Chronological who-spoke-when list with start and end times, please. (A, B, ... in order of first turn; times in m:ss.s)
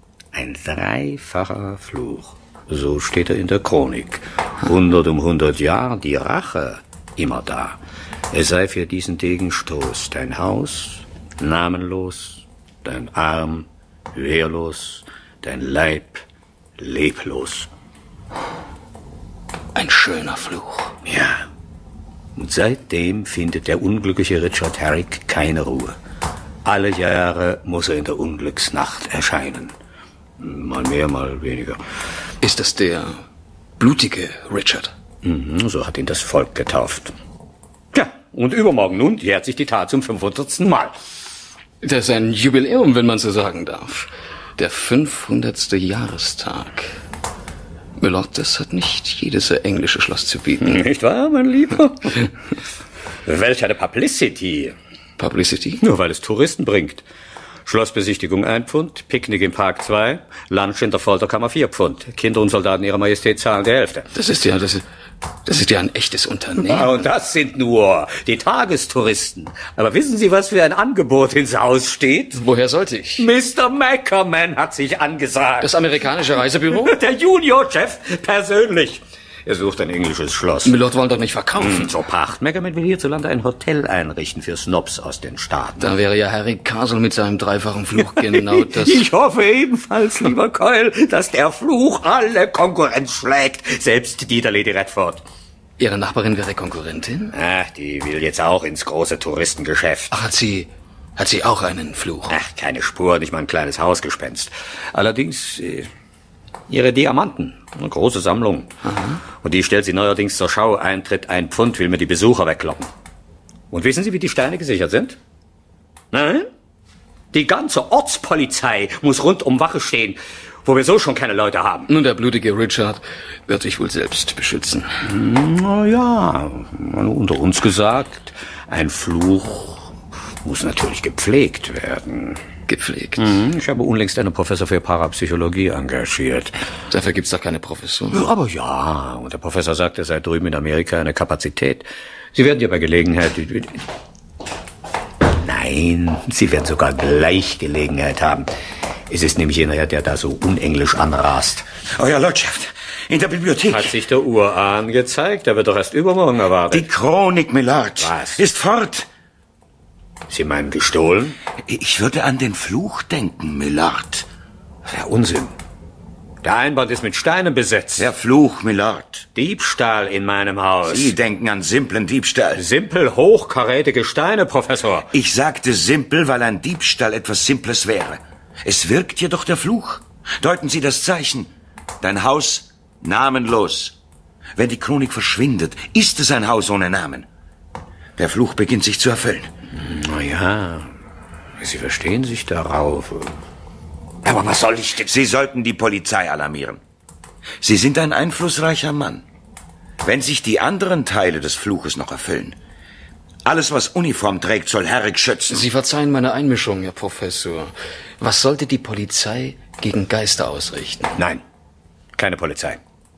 0:00.3-0:07.8 A
0:08.3-0:16.2 A
0:16.8-0:17.7 A
0:19.7-0:21.0 B
0:21.0-0:21.5 A
0:22.3-0:26.0 A
0:26.6-0:29.8 A
0:30.4-0:31.8 A
0:32.4-0:33.2 B
0:33.8-0:34.9 B
0:35.2-0:37.1 A
0:37.9-0:40.9 A
0:41.8-0:46.9 B
0:48.0-0:50.9 B
0:50.6-0:52.3 A
0:53.2-0:54.8 A
0:55.2-0:55.8 B
0:55.8-0:57.0 A
0:57.6-1:04.1 A
1:04.1-1:04.8 B
1:05.4-1:07.0 B
1:06.6-1:12.4 A
1:12.4-1:13.2 B
1:13.2-1:15.7 A
1:15.6-1:17.0 B
1:16.7-1:20.8 A
1:20.6-1:21.9 B
1:21.6-1:25.9 A
1:25.8-1:29.0 B
1:28.0-1:35.2 A
1:35.8-1:37.3 B
1:37.3-1:40.1 A
1:40.1-1:42.4 B
1:42.3-1:45.9 A
1:46.7-1:48.7 A
1:48.8-1:49.2 B
1:49.4-1:52.9 A
1:53.7-1:55.2 A
1:56.1-1:56.5 A
1:57.3-2:01.9 A
2:01.9-2:04.9 B
2:05.0-2:09.9 A
2:10.4-2:12.4 A
2:12.7-2:13.3 B
2:13.2-2:16.6 A
2:16.9-2:18.2 B
2:18.1-2:23.8 A
2:25.3-2:28.4 A
2:29.1-2:31.6 A
2:32.0-2:33.9 C
2:33.6-2:36.9 A
2:36.7-2:39.1 C
2:38.0-2:38.4 A
2:40.3-2:41.4 A
2:41.7-2:44.2 C
2:44.8-2:45.6 A
2:46.4-2:48.1 A
2:48.0-2:49.3 C
2:49.3-2:51.2 A
2:50.8-2:52.6 C
2:52.5-2:55.1 A
2:55.1-3:01.5 C
3:02.0-3:04.0 C
3:04.6-3:07.3 C
3:08.2-3:09.5 C
3:09.7-3:10.9 A
3:11.6-3:13.4 A
3:14.2-3:15.1 A
3:15.0-3:16.8 C
3:17.6-3:19.2 C
3:20.0-3:22.6 C
3:23.4-3:25.6 C
3:25.5-3:31.2 B
3:31.2-3:31.4 A
3:32.2-3:32.8 A